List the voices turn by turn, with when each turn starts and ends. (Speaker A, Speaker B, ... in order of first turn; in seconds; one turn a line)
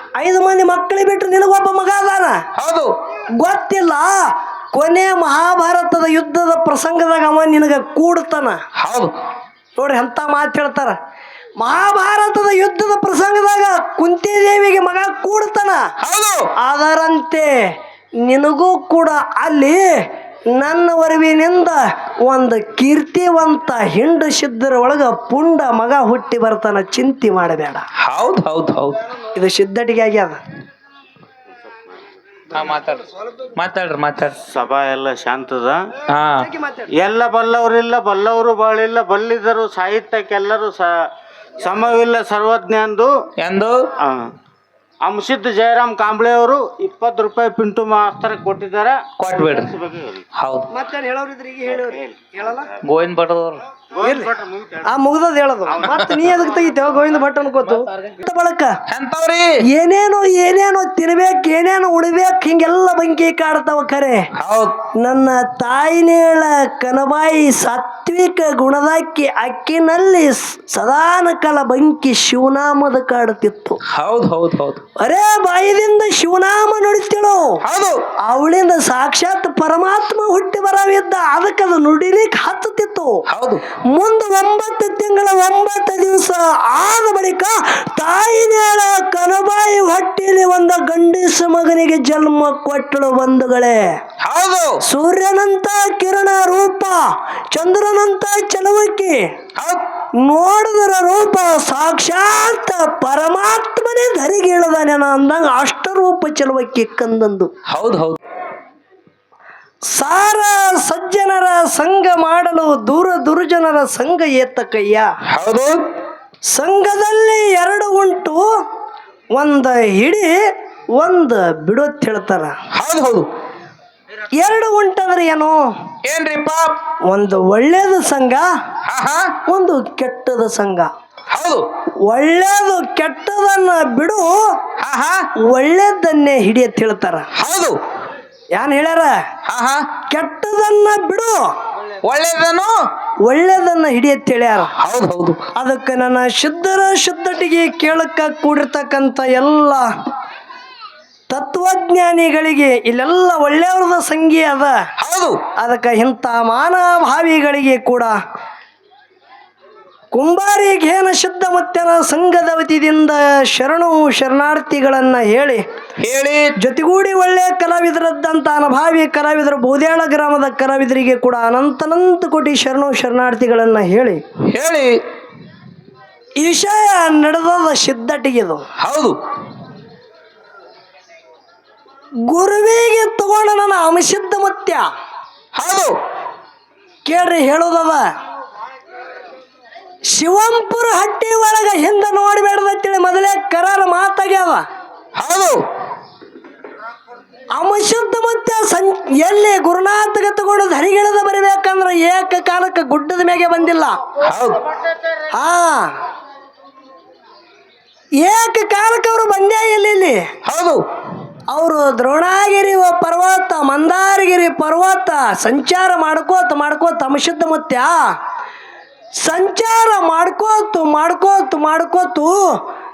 Speaker A: 0.1-2.4
Speaker B: 2.5-2.9
Speaker A: 3.4-8.6
Speaker B: 8.8-9.1
Speaker A: 9.8-11.0
Speaker A: 11.6-15.9
Speaker B: 16.0-16.5
Speaker A: 16.6-27.8
Speaker B: 28.0-29.0
Speaker A: 29.3-30.4
Speaker B: 32.5-34.4
Speaker C: 34.5-35.9
Speaker B: 36.1-36.5
Speaker A: 36.4-36.9
Speaker C: 36.9-41.0
Speaker C: 41.6-43.1
Speaker B: 43.4-43.8
Speaker C: 44.0-44.3
Speaker C: 45.0-50.2
Speaker B: 49.2-49.7
Speaker B: 50.3-50.7
Speaker A: 50.7-52.7
Speaker C: 51.7-52.6
Speaker B: 52.8-53.6
Speaker C: 53.9-54.9
Speaker A: 54.0-54.3
Speaker A: 54.9-58.8
Speaker C: 55.7-56.8
Speaker B: 58.9-59.5
Speaker A: 59.6-64.3
Speaker B: 64.3-64.8
Speaker A: 64.9-73.8
Speaker B: 73.8-74.8
Speaker A: 75.0-77.6
Speaker B: 77.6-78.0
Speaker A: 78.2-83.2
Speaker B: 83.3-83.6
Speaker A: 83.9-93.9
Speaker B: 94.2-94.8
Speaker A: 94.8-99.3
Speaker B: 99.5-99.8
Speaker A: 100.2-107.5
Speaker B: 107.7-108.2
Speaker A: 109.9-115.1
Speaker B: 115.3-115.8
Speaker A: 116.5-118.6
Speaker A: 119.3-122.6
Speaker B: 122.7-123.3
Speaker A: 124.3-125.7
Speaker B: 126.0-126.8
Speaker A: 127.1-128.5
Speaker B: 128.8-129.3
Speaker A: 129.4-130.9
Speaker B: 131.3-131.7
Speaker A: 132.1-134.6
Speaker B: 134.8-135.2
Speaker A: 135.4-137.3
Speaker B: 137.3-137.8
Speaker A: 138.6-139.2
Speaker B: 139.4-139.9
Speaker A: 140.1-141.5
Speaker B: 142.0-142.8
Speaker A: 143.2-144.7
Speaker B: 144.8-145.4
Speaker A: 145.5-149.9
Speaker A: 151.3-154.8
Speaker B: 155.0-155.4
Speaker A: 155.6-158.2
Speaker A: 160.1-165.6
Speaker B: 166.0-166.5
Speaker A: 166.6-174.2
Speaker B: 174.5-175.0
Speaker A: 176.4-178.6
Speaker B: 178.8-179.2
Speaker A: 182.2-184.9
Speaker B: 185.5-186.0
Speaker A: 187.0-188.1
Speaker A: 190.1-194.6
Speaker B: 195.1-195.6
Speaker A: 197.5-204.0
Speaker B: 204.2-204.6
Speaker A: 205.3-206.0
Speaker A: 208.2-210.3
Speaker B: 210.4-210.8
Speaker A: 211.5-218.1
Speaker A: 219.2-222.6